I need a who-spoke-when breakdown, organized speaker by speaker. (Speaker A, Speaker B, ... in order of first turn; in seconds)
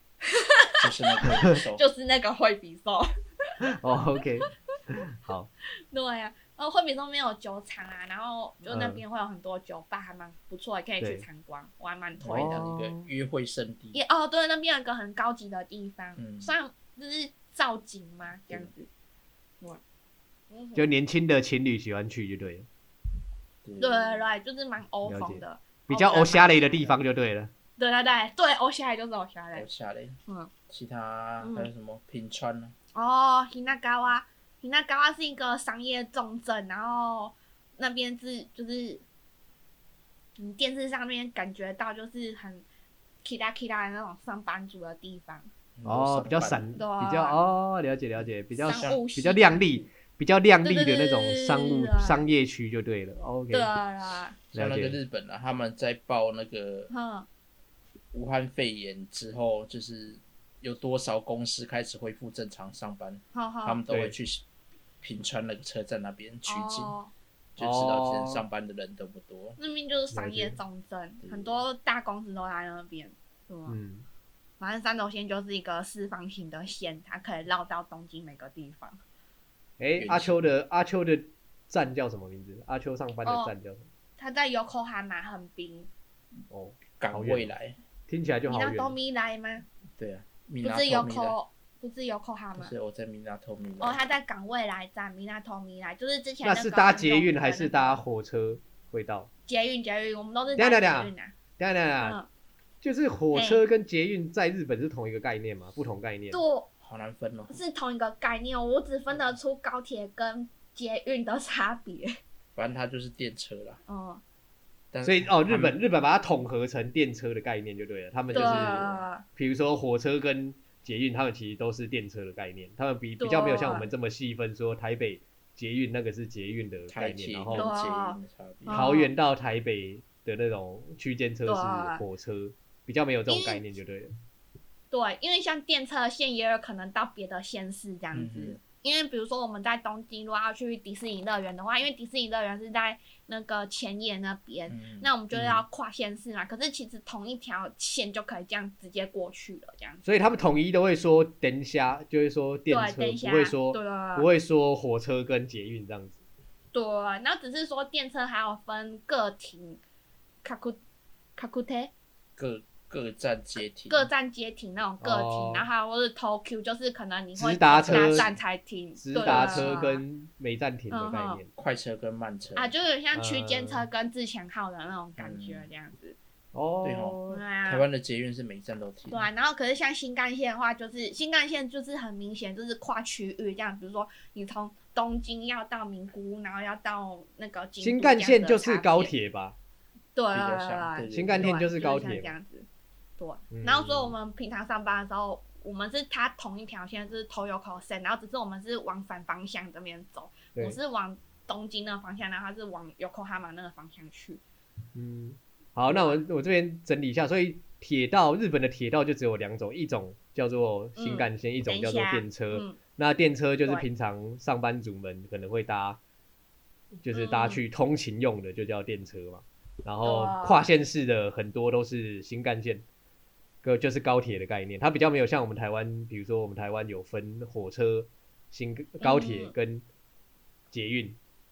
Speaker A: 0.2-3.6, 5.9-12.6, 13.9-18.9, 20.5-20.9, 23.8-26.9, 27.8-29.6, 31.4-31.7, 32.9-39.0, 40.4-42.6, 43.2-45.5, 46.7-47.4, 48.6-49.9, 50.6-52.2, 53.5-54.4, 56.9-57.3, 63.3-63.8, 66.5-67.1, 69.6-73.8, 74.6-79.0, 83.2-83.5, 84.2-85.9, 88.5-89.7, 90.6-92.7, 93.8-98.0, 99.5-101.3, 102.0-102.3, 103.3-103.6, 106.3-106.7, 107.5-112.2, 113.9-114.2, 118.3-119.2, 123.2-123.9, 127.5-129.1, 131.4-132.0, 133.3-133.6, 134.9-150.0, 152.7-154.3, 156.7-159.8, 160.4-160.8, 161.4-161.9, 163.9-170.0, 170.9-171.4, 172.6-176.2, 177.3-177.8, 179.1-189.1, 190.1-192.7, 193.2-204.4, 205.9-206.2, 210.9-212.8, 217.1-217.6, 220.0-220.7, 229.0-229.5
Speaker B: 0.8-1.8, 12.2-14.0, 16.2-16.5, 23.6-24.2, 29.5-32.7, 45.8-46.7, 48.6-49.0, 54.5-56.9, 58.1-64.4, 65.0-66.9, 67.5-69.6, 71.2-71.6, 80.0-80.5, 87.0-87.8, 90.0-91.3, 92.6-94.0, 106.8-107.6, 112.5-113.8, 114.9-115.8, 126.9-128.9, 138.1-138.6, 144.7-145.1, 162.4-164.1, 167.8-168.3, 169.2-169.8, 171.6-172.7, 175.2-175.7, 176.8-179.3, 190.3-191.6
Speaker C: 3.6-5.5, 8.7-9.0, 11.0-11.2, 12.2-13.1, 20.7-22.7, 25.1-27.5, 45.8-53.7, 54.5-55.0, 63.9-64.1, 67.6-68.4, 70.1-70.6, 73.7-74.0, 79.8-83.9, 86.5-87.5, 88.1-89.0, 96.4-99.3, 100.6-102.2, 102.8-106.4, 115.0-127.7, 128.7-134.1, 145.3-145.6, 150.0-156.2, 165.0-165.7, 167.3-168.3, 169.0-171.5, 173.1-173.8, 176.5-177.4, 187.8-189.6, 191.1-192.3, 193.5-194.1, 204.9-216.0, 217.0-222.8, 223.6-229.8, 230.7-231.2